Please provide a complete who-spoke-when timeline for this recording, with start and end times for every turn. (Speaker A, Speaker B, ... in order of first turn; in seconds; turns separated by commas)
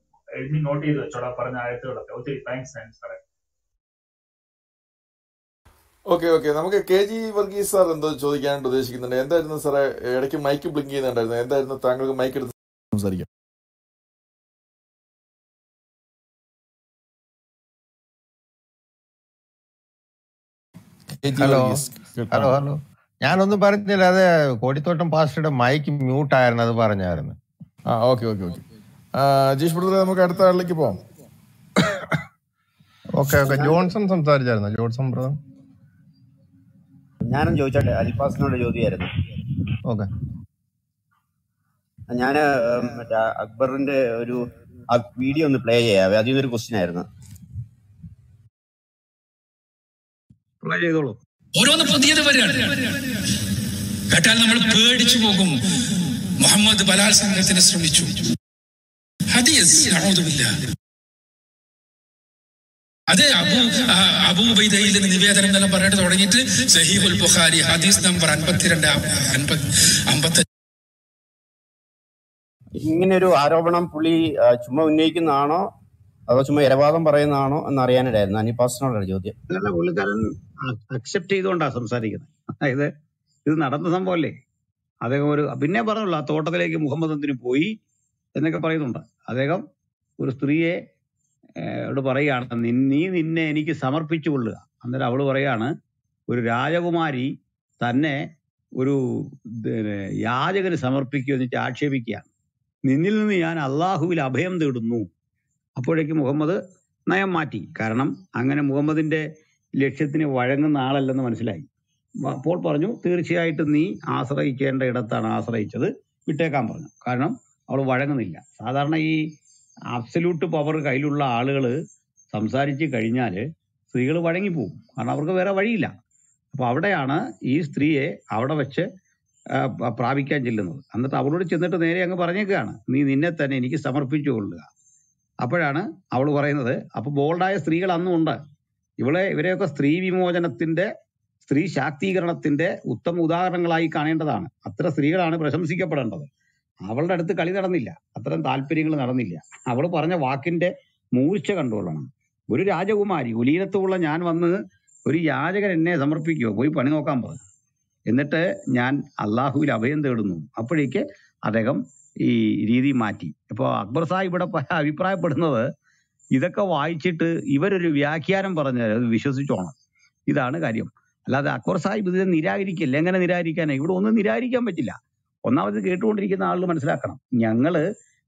Speaker A: 0.4-3.2, Speaker B: 6.1-13.3, Speaker B: 21.2-22.6, Speaker C: 22.4-22.7, Speaker C: 25.8-27.3, Speaker B: 27.9-28.6, Speaker B: 29.1-31.0, Speaker C: 33.2-35.4, Speaker D: 37.3-39.1, Speaker D: 42.1-47.1, Speaker E: 50.6-51.2, Speaker F: 51.6-53.2, Speaker F: 54.1-55.6, Speaker F: 56.4-58.2, Speaker F: 59.3-60.6, Speaker F: 63.1-70.5, Speaker D: 72.8-75.7, Speaker D: 76.3-79.3, Speaker E: 79.5-82.9, Speaker E: 83.5-84.3, Speaker E: 85.0-87.8, Speaker E: 88.4-89.7, Speaker E: 90.2-90.8, Speaker E: 91.6-95.7, Speaker E: 96.3-98.2, Speaker E: 98.8-102.3, Speaker E: 102.9-105.1, Speaker E: 105.8-109.2, Speaker E: 109.8-111.7, Speaker E: 112.2-119.3, Speaker E: 119.9-121.8, Speaker E: 122.3-125.9, Speaker E: 126.5-128.9, Speaker E: 129.6-134.7, Speaker E: 135.4-138.4, Speaker E: 139.0-140.9, Speaker E: 141.4-146.3, Speaker E: 146.9-154.6, Speaker E: 155.1-157.4, Speaker E: 158.1-165.7, Speaker E: 166.3-169.7, Speaker E: 170.3-177.8